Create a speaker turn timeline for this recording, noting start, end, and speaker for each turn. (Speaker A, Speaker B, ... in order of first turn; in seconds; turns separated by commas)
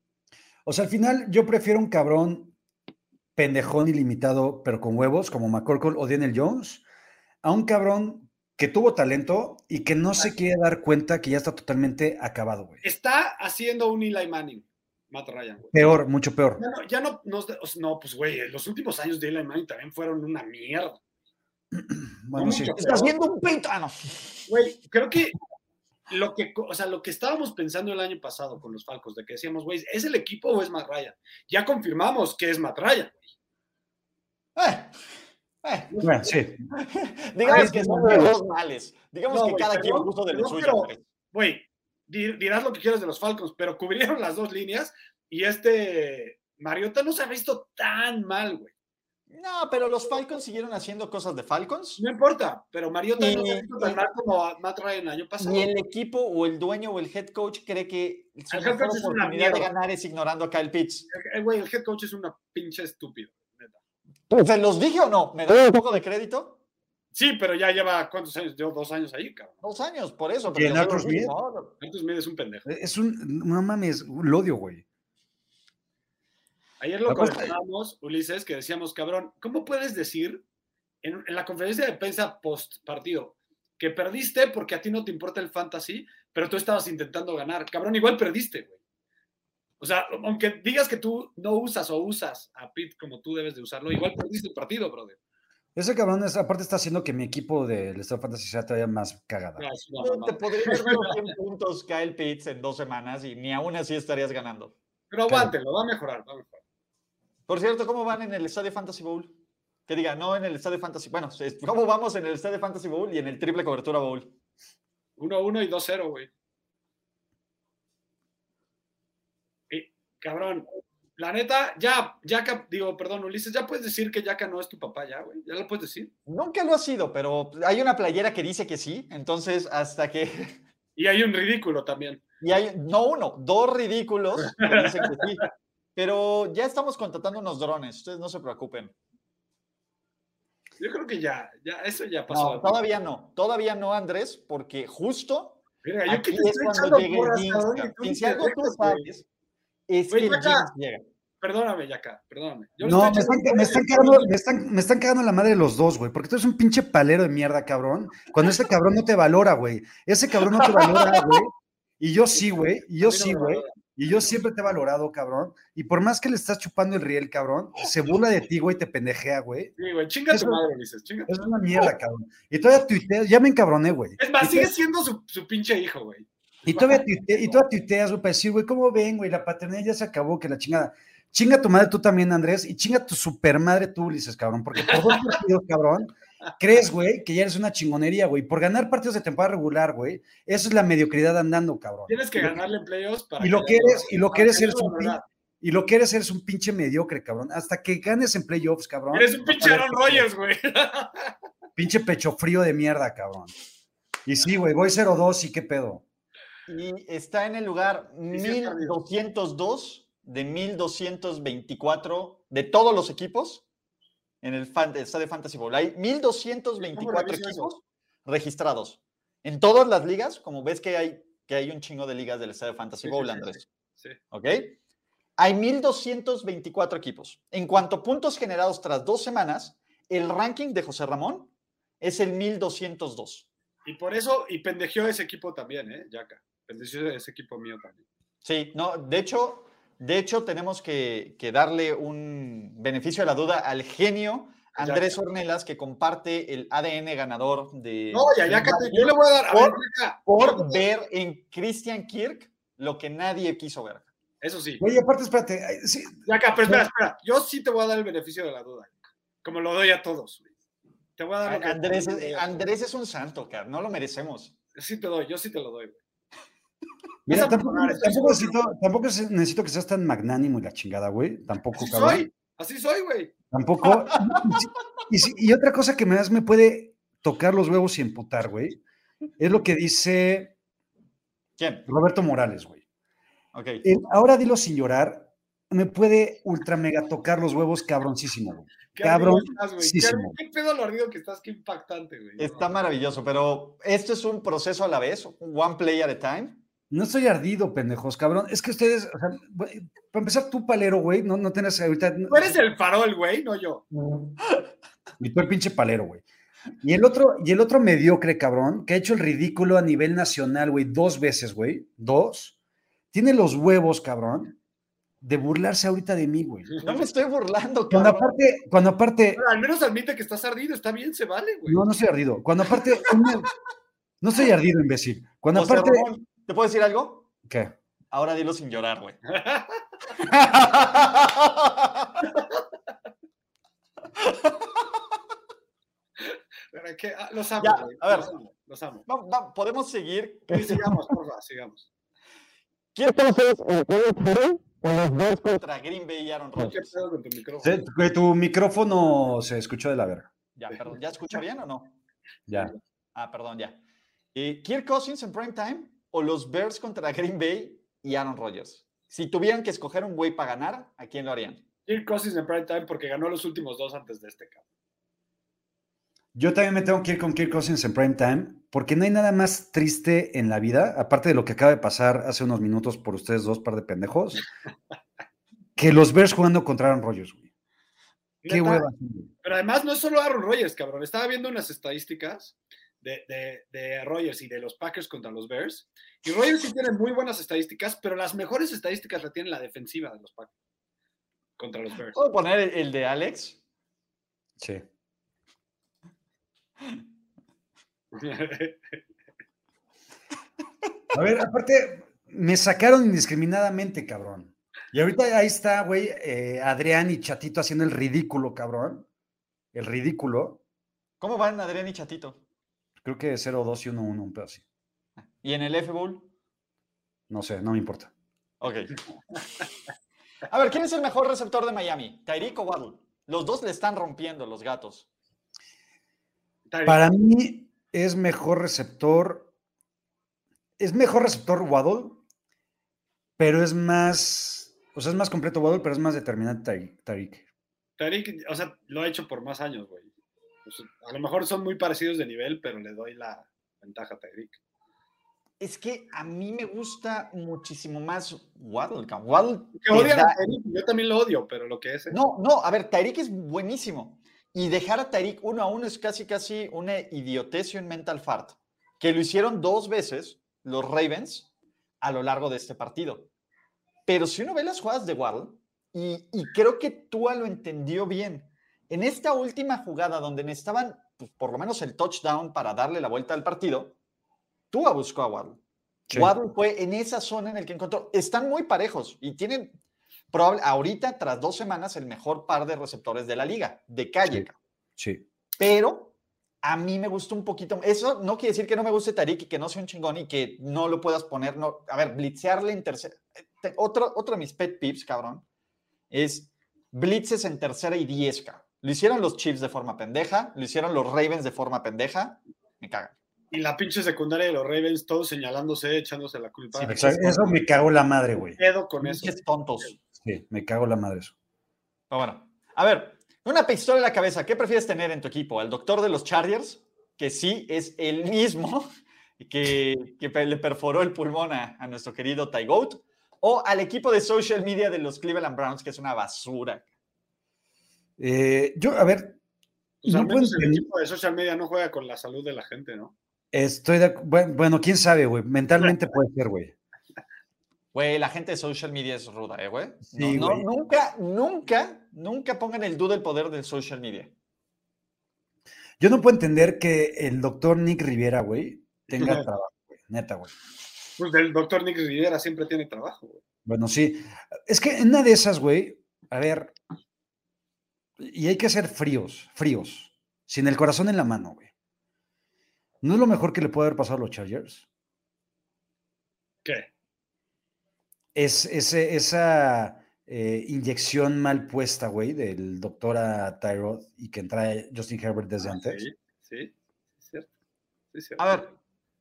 Speaker A: 0.6-2.5, Speaker A: 3.4-6.8, Speaker A: 7.4-12.8, Speaker B: 12.8-15.9, Speaker A: 15.7-16.6, Speaker B: 16.6-21.0, Speaker A: 21.7-22.8, Speaker B: 22.4-23.1, Speaker C: 22.7-24.3, Speaker B: 24.5-25.4, Speaker B: 26.1-33.2, Speaker C: 34.5-34.9, Speaker C: 35.6-35.9, Speaker B: 35.9-36.3, Speaker A: 36.0-36.6, Speaker C: 36.7-41.0, Speaker A: 37.4-38.2, Speaker B: 37.5-38.1, Speaker B: 39.3-48.7, Speaker C: 49.3-52.0, Speaker B: 52.0-55.7, Speaker C: 53.2-54.0, Speaker C: 55.4-61.1, Speaker B: 58.5-59.7, Speaker B: 61.1-63.8, Speaker C: 64.3-66.6, Speaker B: 67.1-69.6, Speaker C: 69.6-71.7, Speaker A: 70.5-71.3, Speaker B: 71.8-72.7, Speaker A: 72.7-74.8, Speaker B: 76.8-80.4, Speaker A: 77.1-77.5, Speaker B: 81.0-88.8, Speaker B: 89.8-95.2, Speaker A: 95.7-99.6, Speaker B: 99.6-101.2, Speaker C: 100.0-104.7, Speaker B: 105.1-106.6, Speaker C: 107.5-109.3, Speaker C: 109.9-114.3, Speaker B: 115.2-116.3, Speaker B: 119.7-120.7, Speaker B: 121.2-126.1, Speaker C: 126.3-130.6, Speaker B: 130.9-132.2, Speaker C: 132.4-138.9, Speaker B: 134.4-135.2, Speaker B: 140.8-142.8, Speaker C: 142.3-149.2, Speaker B: 145.8-149.0, Speaker C: 149.9-151.0, Speaker B: 150.1-150.7, Speaker B: 151.4-154.3, Speaker A: 152.8-169.7, Speaker B: 163.0-164.4, Speaker B: 169.8-171.9, Speaker A: 170.3-170.6, Speaker A: 171.3-174.7, Speaker B: 174.2-177.6, Speaker A: 176.7-192.6, Speaker B: 184.8-185.4, Speaker B: 192.1-195.2, Speaker A: 193.4-200.3, Speaker B: 199.1-201.3, Speaker A: 201.8-203.5, Speaker A: 204.2-206.0, Speaker C: 206.7-213.6, Speaker B: 208.3-209.0, Speaker C: 214.4-223.6, Speaker B: 216.8-217.7, Speaker B: 223.0-224.2, Speaker C: 224.3-224.8, Speaker C: 225.4-233.5, Speaker B: 233.8-238.0, Speaker C: 238.4-254.1, Speaker B: 244.8-245.2, Speaker B: 248.1-250.8, Speaker B: 254.4-254.8, Speaker A: 254.8-256.9, Speaker B: 256.2-260.5, Speaker B: 261.2-262.6, Speaker C: 261.4-264.5, Speaker B: 264.8-266.0, Speaker A: 267.2-272.2, Speaker B: 267.3-268.6, Speaker B: 271.7-273.3, Speaker A: 273.5-278.8, Speaker A: 279.4-280.5, Speaker C: 281.6-281.9, Speaker A: 281.9-282.8, Speaker C: 283.5-283.8, Speaker A: 283.8-290.4, Speaker B: 288.9-292.7, Speaker C: 292.4-296.6, Speaker A: 296.9-302.6, Speaker B: 302.3-303.8, Speaker C: 303.9-304.6, Speaker A: 305.2-306.2, Speaker A: 306.8-312.5, Speaker A: 313.1-314.6, Speaker A: 315.2-316.8, Speaker B: 316.7-317.0, Speaker C: 316.8-318.3, Speaker A: 317.9-319.4, Speaker B: 319.4-321.8, Speaker A: 321.6-323.5, Speaker A: 324.2-326.1, Speaker C: 325.5-327.3, Speaker A: 327.5-327.7, Speaker C: 328.1-329.2, Speaker B: 329.3-329.8, Speaker C: 330.2-332.2, Speaker C: 334.1-334.8, Speaker B: 336.7-339.1, Speaker C: 337.6-338.3, Speaker C: 339.1-340.9, Speaker B: 340.5-341.9, Speaker C: 342.9-346.9, Speaker B: 346.6-347.8, Speaker A: 347.6-350.3, Speaker C: 350.6-352.0, Speaker A: 352.5-352.7, Speaker C: 353.1-353.8, Speaker C: 354.3-361.6, Speaker B: 361.9-364.6, Speaker A: 366.3-374.4, Speaker A: 375.8-377.4, Speaker B: 378.4-378.9, Speaker A: 378.5-379.3, Speaker B: 379.4-390.5, Speaker B: 391.6-392.2, Speaker C: 392.1-393.6, Speaker A: 394.6-394.8, Speaker B: 398.1-398.9, Speaker A: 401.1-409.1, Speaker A: 409.7-410.6, Speaker C: 411.2-412.4, Speaker A: 413.0-414.6, Speaker C: 415.4-416.3, Speaker A: 417.3-418.1, Speaker C: 418.6-418.9, Speaker C: 420.5-425.1, Speaker B: 426.7-427.1, Speaker A: 426.8-429.5, Speaker A: 430.8-432.2, Speaker A: 433.4-437.4, Speaker B: 438.0-440.1, Speaker B: 440.6-444.6, Speaker C: 445.6-450.4, Speaker B: 449.8-452.2, Speaker C: 452.1-461.5, Speaker C: 462.0-463.3, Speaker C: 464.1-473.9, Speaker C: 474.7-475.6, Speaker C: 476.1-479.7, Speaker C: 480.3-484.6, Speaker A: 485.0-485.2, Speaker C: 485.6-495.4, Speaker C: 496.1-503.1, Speaker B: 503.5-507.6, Speaker A: 506.7-508.6, Speaker B: 508.6-509.9, Speaker C: 509.0-509.9, Speaker A: 510.2-511.3, Speaker C: 512.1-518.9, Speaker C: 519.4-526.9, Speaker A: 528.2-529.4, Speaker B: 530.0-533.1, Speaker A: 530.0-530.9, Speaker A: 533.5-536.7, Speaker C: 537.9-544.3, Speaker A: 540.1-540.6, Speaker A: 546.0-550.5, Speaker B: 549.1-549.5, Speaker B: 551.2-553.4, Speaker A: 553.6-556.7, Speaker A: 558.2-561.7, Speaker A: 563.0-564.8, Speaker A: 568.3-576.0, Speaker B: 575.6-577.5, Speaker B: 578.1-578.7, Speaker C: 578.4-578.7